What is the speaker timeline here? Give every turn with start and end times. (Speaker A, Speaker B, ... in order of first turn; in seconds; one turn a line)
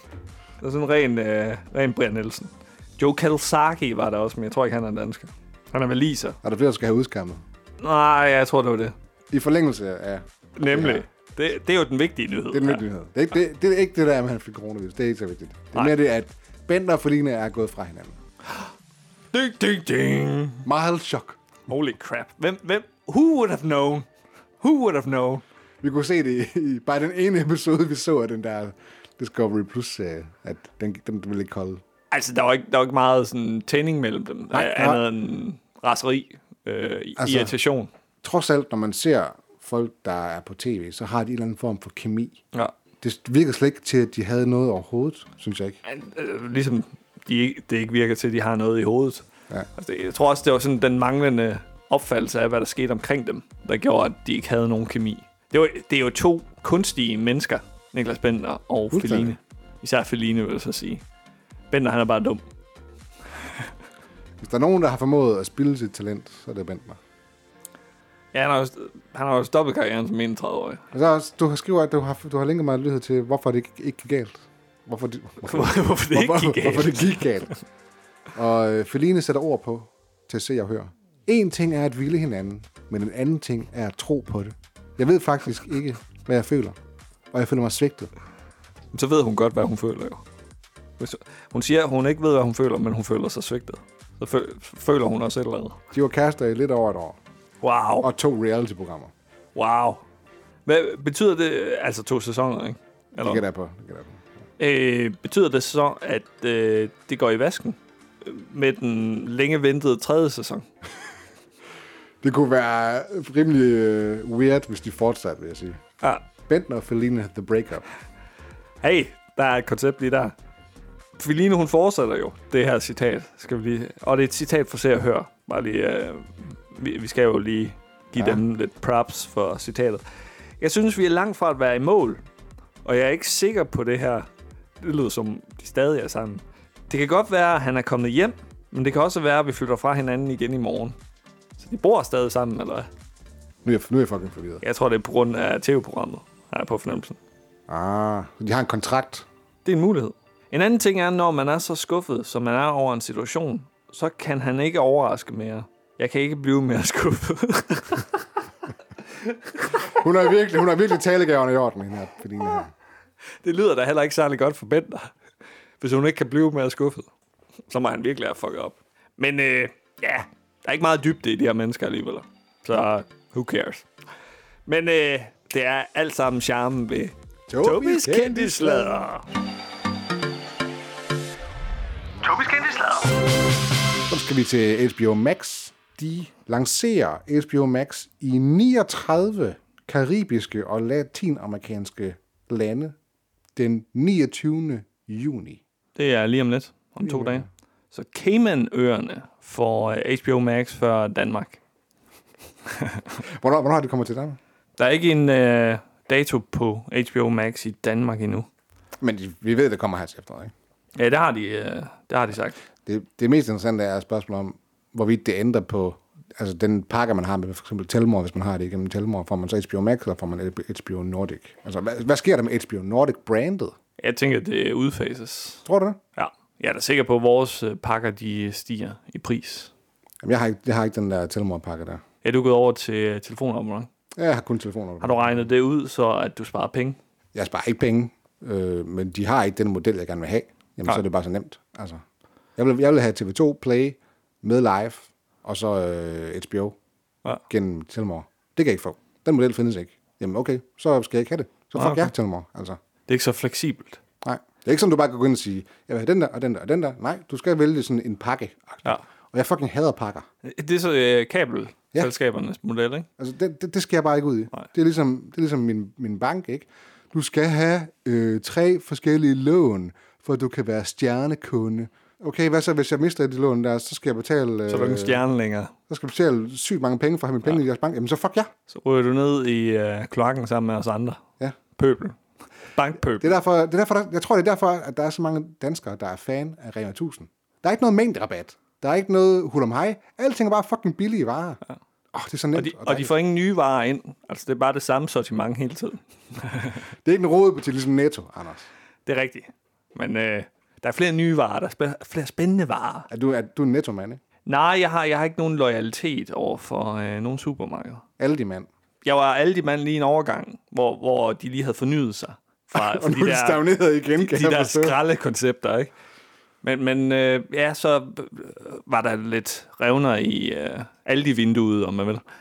Speaker A: 0.6-6.4
Speaker B: 6.4-7.4
Speaker A: 7.8-8.9
Speaker B: 9.3-11.0
Speaker A: 10.6-12.8
Speaker B: 12.5-18.2
Speaker A: 19.3-20.7
Speaker B: 20.6-21.4
Speaker A: 21.7-24.1
Speaker A: 24.6-25.4
Speaker B: 25.8-31.8
Speaker A: 32.1-37.9
Speaker B: 34.5-35.0
Speaker B: 37.2-37.5
Speaker B: 38.2-42.4
Speaker B: 43.0-45.8
Speaker A: 45.8-61.0
Speaker B: 58.9-59.4
Speaker A: 61.7-62.4
Speaker B: 64.4-67.0
Speaker A: 68.3-70.8
Speaker B: 70.9-77.5
Speaker A: 75.4-77.2
Speaker B: 78.3-86.8
Speaker B: 87.3-88.1
Speaker A: 88.9-90.2
Speaker A: 91.0-95.8
Speaker B: 95.9-97.2
Speaker A: 97.6-98.1
Speaker B: 98.0-99.1
Speaker A: 99.5-100.0
Speaker A: 100.7-103.4
Speaker B: 103.2-104.2
Speaker A: 104.6-110.7
Speaker B: 112.2-115.8
Speaker B: 116.5-117.9
Speaker A: 118.8-120.3
Speaker A: 121.2-130.0
Speaker B: 128.2-128.4
Speaker A: 130.6-132.2
Speaker A: 132.8-134.3
Speaker A: 134.8-141.0
Speaker A: 141.6-142.9
Speaker B: 143.6-144.6
Speaker A: 144.6-147.2
Speaker B: 147.7-149.3
Speaker A: 149.7-158.2
Speaker A: 159.3-159.8
Speaker B: 159.8-162.7
Speaker A: 163.4-165.1
Speaker A: 165.8-167.1
Speaker A: 167.7-173.9
Speaker A: 174.7-179.2
Speaker B: 177.5-179.0
Speaker A: 182.2-183.1
Speaker B: 184.1-193.0
Speaker B: 193.6-195.6
Speaker A: 196.0-201.6
Speaker B: 197.0-197.4
Speaker B: 203.2-204.4
Speaker A: 204.8-208.5
Speaker B: 209.0-210.5
Speaker A: 211.0-212.6
Speaker B: 212.9-223.8
Speaker A: 224.0-225.6
Speaker B: 225.7-226.0
Speaker A: 226.2-229.7
Speaker B: 230.2-232.0
Speaker A: 232.2-233.9
Speaker B: 234.2-235.5
Speaker A: 235.0-237.0
Speaker B: 237.3-242.0
Speaker B: 242.6-246.8
Speaker B: 247.5-252.8
Speaker A: 251.8-252.1
Speaker A: 253.1-254.0
Speaker B: 254.2-260.3
Speaker A: 260.4-263.1
Speaker B: 263.2-275.2
Speaker A: 274.7-275.7
Speaker B: 275.9-278.5
Speaker A: 278.7-281.2
Speaker A: 281.8-282.2
Speaker A: 282.7-283.4
Speaker B: 283.2-291.6
Speaker B: 292.1-293.1
Speaker A: 292.6-296.8
Speaker B: 297.0-298.7
Speaker A: 299.1-303.1
Speaker B: 303.1-304.2
Speaker A: 304.5-308.1
Speaker B: 308.2-308.7
Speaker A: 309.0-315.9
Speaker B: 312.7-315.0
Speaker A: 316.6-322.2